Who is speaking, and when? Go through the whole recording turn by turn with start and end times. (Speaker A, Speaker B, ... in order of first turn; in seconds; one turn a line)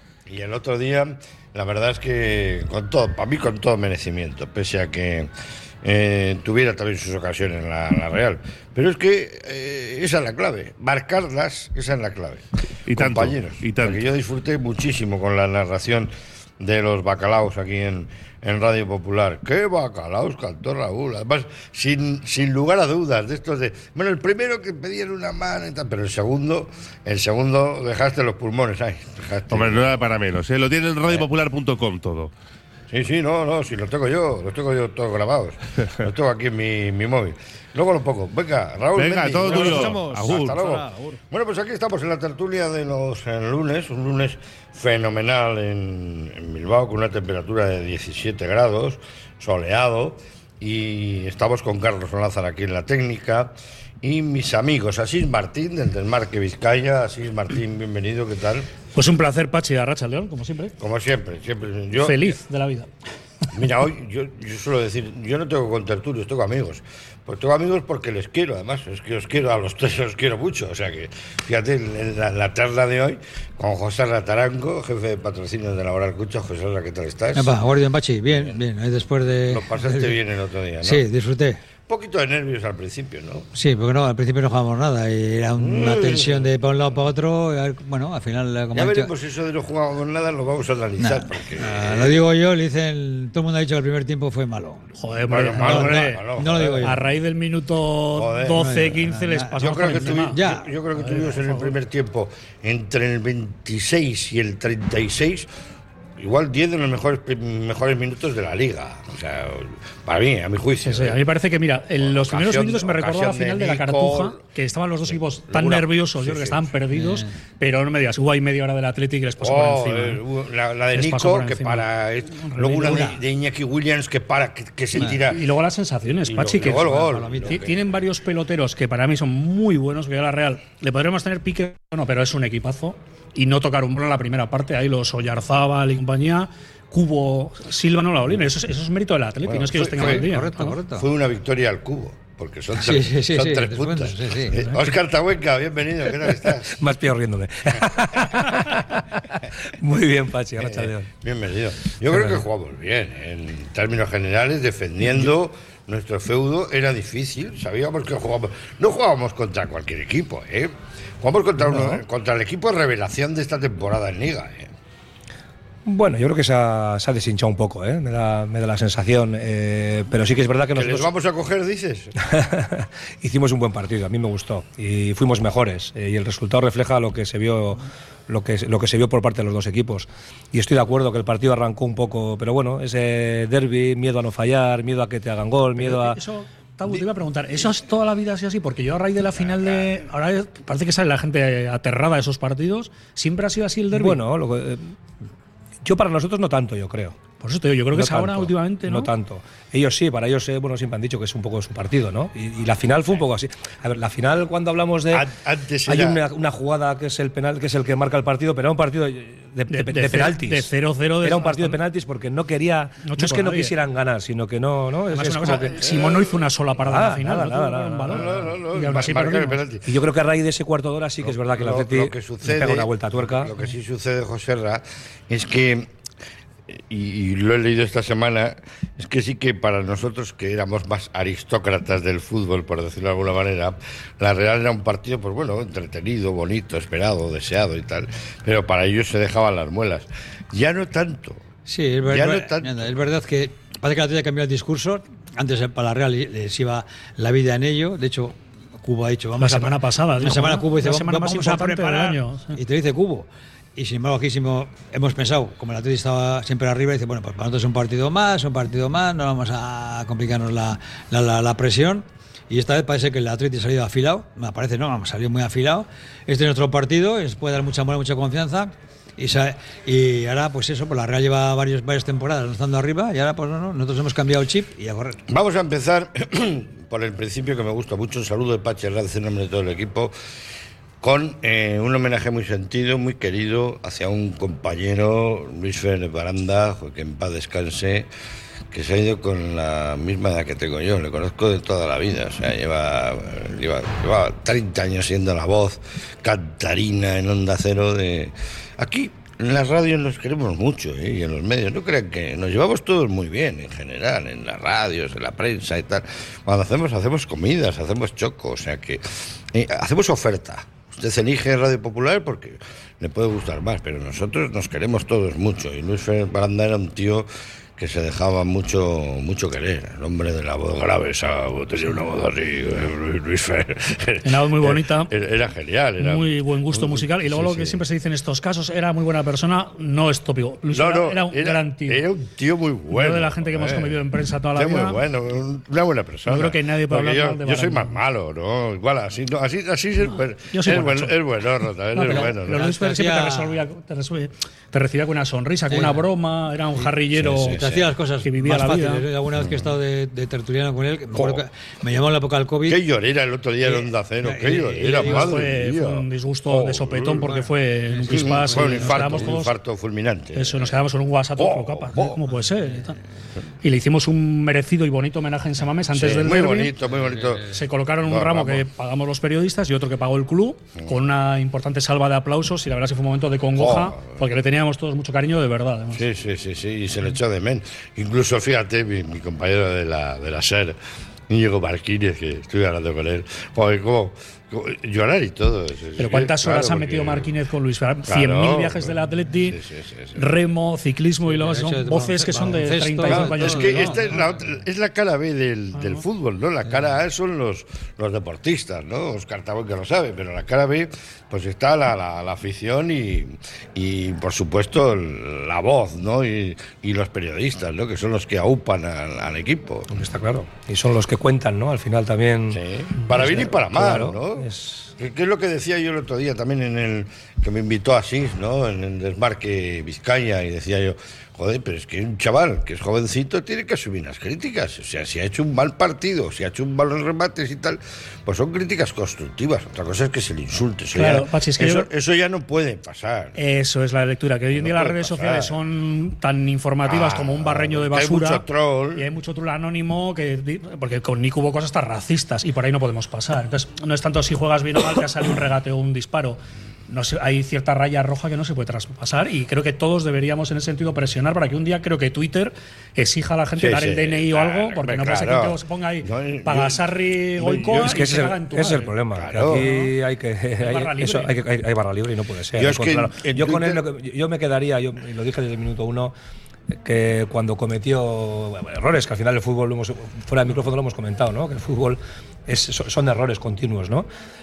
Speaker A: 0.3-5.3
Speaker A: 5.8-30.0
Speaker B: 12.9-14.0
Speaker B: 29.5-32.3
Speaker A: 32.9-58.7
Speaker B: 39.0-41.2
Speaker C: 59.0-60.8
Speaker A: 60.8-62.4
Speaker C: 62.0-62.9
Speaker A: 63.5-77.6
Speaker D: 77.3-80.2
Speaker A: 78.3-78.6
Speaker A: 79.5-81.0
Speaker D: 80.8-81.6
Speaker A: 81.9-83.5
Speaker D: 83.5-89.1
Speaker A: 85.6-86.5
Speaker A: 88.7-92.2
Speaker D: 91.0-94.9
Speaker C: 95.0-96.3
Speaker A: 95.3-97.0
Speaker D: 95.6-97.0
Speaker C: 96.8-100.4
Speaker A: 98.1-98.9
Speaker D: 98.5-100.7
Speaker A: 99.6-105.5
Speaker C: 101.0-101.7
Speaker A: 106.2-111.2
Speaker C: 110.8-120.2
Speaker A: 112.0-114.4
Speaker A: 115.0-116.7
Speaker D: 116.9-117.3
Speaker A: 119.4-125.4
Speaker C: 120.9-123.1
Speaker D: 122.8-123.2
Speaker C: 125.0-127.0
Speaker A: 126.3-127.8
Speaker D: 126.6-127.6
Speaker C: 127.5-140.8
Speaker A: 139.4-140.3
Speaker D: 139.9-141.1
Speaker A: 140.9-146.8
Speaker D: 142.7-144.6
Speaker C: 144.5-144.9
Speaker E: 146.8-151.1
Speaker A: 150.6-164.7
Speaker E: 152.1-152.4
Speaker E: 161.7-162.0
Speaker E: 165.9-171.1
Speaker A: 170.7-172.1
Speaker E: 172.2-186.2
Speaker C: 185.8-194.2
Speaker A: 189.4-190.0
Speaker E: 193.9-194.9
Speaker E: 195.8-197.2
Speaker C: 197.4-199.1
Speaker E: 197.9-205.3
Speaker A: 205.1-206.2
Speaker E: 205.9-210.7
Speaker C: 209.7-211.8
Speaker E: 211.2-215.9
Speaker C: 213.1-213.8
Speaker C: 215.1-219.6
Speaker A: 215.7-216.4
Speaker E: 216.8-218.5
Speaker A: 218.1-219.9
Speaker E: 219.9-223.5
Speaker A: 221.2-225.9
Speaker A: 226.7-241.5
Speaker D: 241.7-275.2
Speaker A: 242.1-242.9
Speaker C: 249.4-252.6
Speaker A: 275.3-280.1
Speaker A: 281.0-288.1
Speaker A: 288.7-327.8
Speaker C: 324.2-325.1
Speaker C: 326.0-332.1
Speaker A: 330.7-334.0
Speaker C: 332.9-335.0
Speaker A: 334.5-342.6
Speaker C: 336.3-338.0
Speaker C: 340.1-341.2
Speaker C: 341.9-347.6
Speaker D: 342.1-343.6
Speaker D: 345.7-346.0
Speaker A: 347.1-347.9
Speaker D: 347.6-352.8
Speaker C: 348.2-349.0
Speaker A: 349.4-349.7
Speaker A: 351.1-351.4
Speaker A: 352.7-357.3
Speaker D: 353.6-355.4
Speaker C: 355.0-359.5
Speaker D: 357.3-359.2
Speaker A: 358.1-360.8
Speaker C: 360.4-363.0
Speaker A: 361.4-362.2
Speaker C: 363.6-366.7
Speaker A: 365.9-367.5
Speaker D: 366.9-367.6
Speaker C: 367.5-376.0
Speaker A: 368.0-368.6
Speaker A: 373.6-374.2
Speaker A: 375.9-380.8
Speaker A: 381.3-387.3
Speaker C: 386.0-389.6
Speaker A: 388.1-388.9
Speaker A: 389.5-390.3
Speaker C: 390.2-394.2
Speaker D: 391.2-394.3
Speaker A: 393.1-409.9
Speaker C: 395.7-396.0
Speaker E: 409.9-414.9
Speaker A: 412.5-433.4
Speaker C: 430.9-431.9
Speaker C: 433.4-438.4
Speaker A: 434.5-435.6
Speaker A: 436.9-439.1
Speaker C: 438.9-458.9
Speaker A: 453.6-456.8
Speaker E: 457.4-466.1
Speaker A: 457.6-458.0
Speaker A: 459.1-459.7
Speaker C: 459.4-459.9
Speaker C: 460.6-461.4
Speaker A: 462.6-463.9
Speaker E: 466.8-474.1